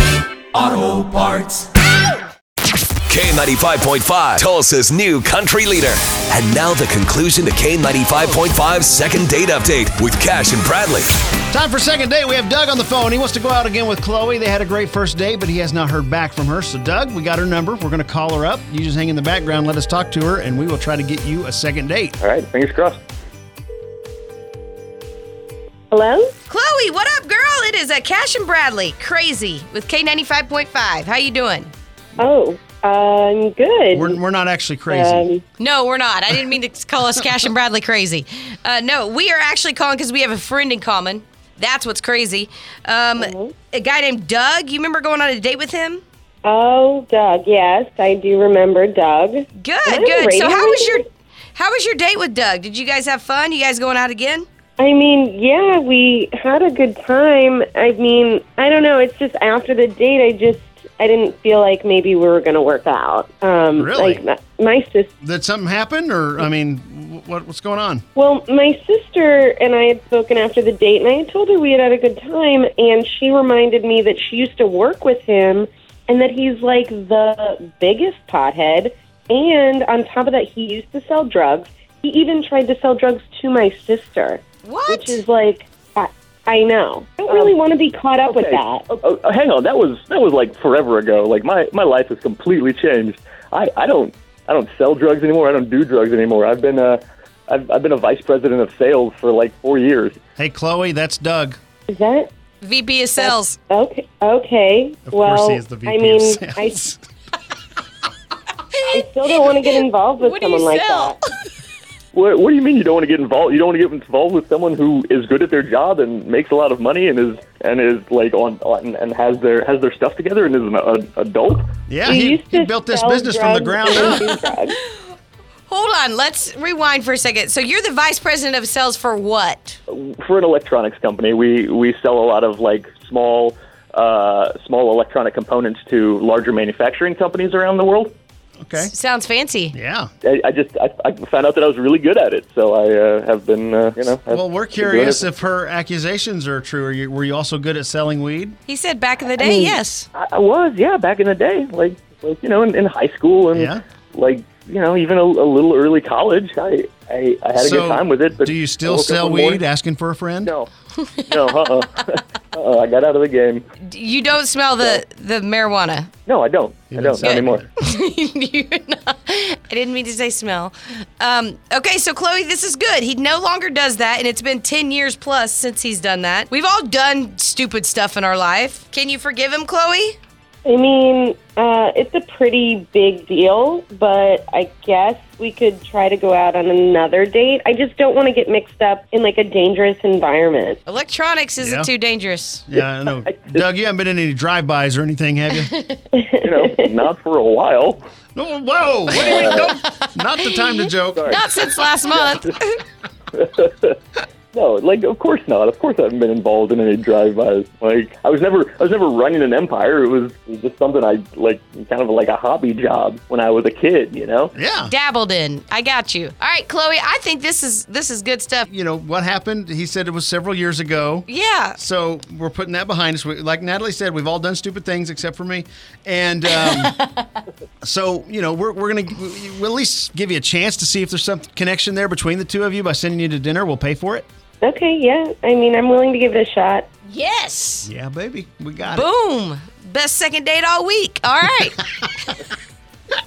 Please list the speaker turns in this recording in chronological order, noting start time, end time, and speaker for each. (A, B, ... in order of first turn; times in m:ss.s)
0:00.5-0:01.7 A
0:03.1-0:11.1 A
0:11.5-0:22.2 B
0:22.2-0:23.0 C
0:25.9-0:26.3 D
0:26.5-0:31.7 E
0:32.2-0:34.2 D
0:33.9-0:35.2 B
0:34.9-0:35.4 D
0:35.6-0:46.0 E
0:43.2-0:43.5 D
0:46.4-0:51.0 D
0:49.6-0:54.4 E
0:54.8-1:05.1 D
1:03.7-1:04.2 B
1:05.2-1:08.0 B
1:08.1-1:29.0 D
1:24.6-1:25.2 E
1:27.2-1:27.5 C
1:28.2-1:40.2 C
1:40.4-1:41.6 B
1:41.9-1:42.3 D
1:42.6-1:43.6 E
1:43.2-1:46.9 D
1:45.1-1:47.0 B
1:48.7-1:51.2 E
1:48.9-1:51.2 D
1:52.1-2:01.7 C
2:01.9-2:04.4 B
2:02.0-2:04.8 D
2:05.7-2:09.8 E
2:09.9-2:18.1 C
2:18.6-2:18.9 B
2:18.8-2:19.7 E
2:19.7-2:20.1 B
2:20.2-2:25.2 C
2:24.3-2:28.6 B
2:28.7-2:30.1 E
2:29.4-2:39.6 C
2:33.5-2:33.8 B
2:37.6-2:40.5 B
2:40.4-2:40.7 C
2:41.0-2:41.4 E
2:41.3-2:43.6 C
2:43.8-2:46.1 E
2:46.2-2:47.6 C
2:46.9-2:47.7 B
2:47.2-3:00.2 E
3:00.6-3:10.8 D
3:10.9-3:12.6 E
3:11.6-3:11.9 B
3:12.7-3:15.7 B
3:13.2-3:13.6 C
3:15.7-3:16.0 E
3:16.1-3:16.9 D
3:16.4-3:18.0 C
3:18.3-3:21.3 B
3:19.1-3:19.7 C
3:19.4-3:19.7 E
3:20.5-3:22.8 E
3:21.1-3:21.4 C
3:23.3-3:24.0 C
3:24.5-3:34.5 C
3:34.5-3:34.9 B
3:34.8-3:38.7 E
3:38.7-3:47.0 B
3:41.3-3:41.8 E
3:46.6-3:47.4 E
3:47.8-3:54.2 B
3:54.6-3:56.9 D
3:57.1-3:57.9 E
3:57.8-3:59.0 B
3:58.9-4:02.3 E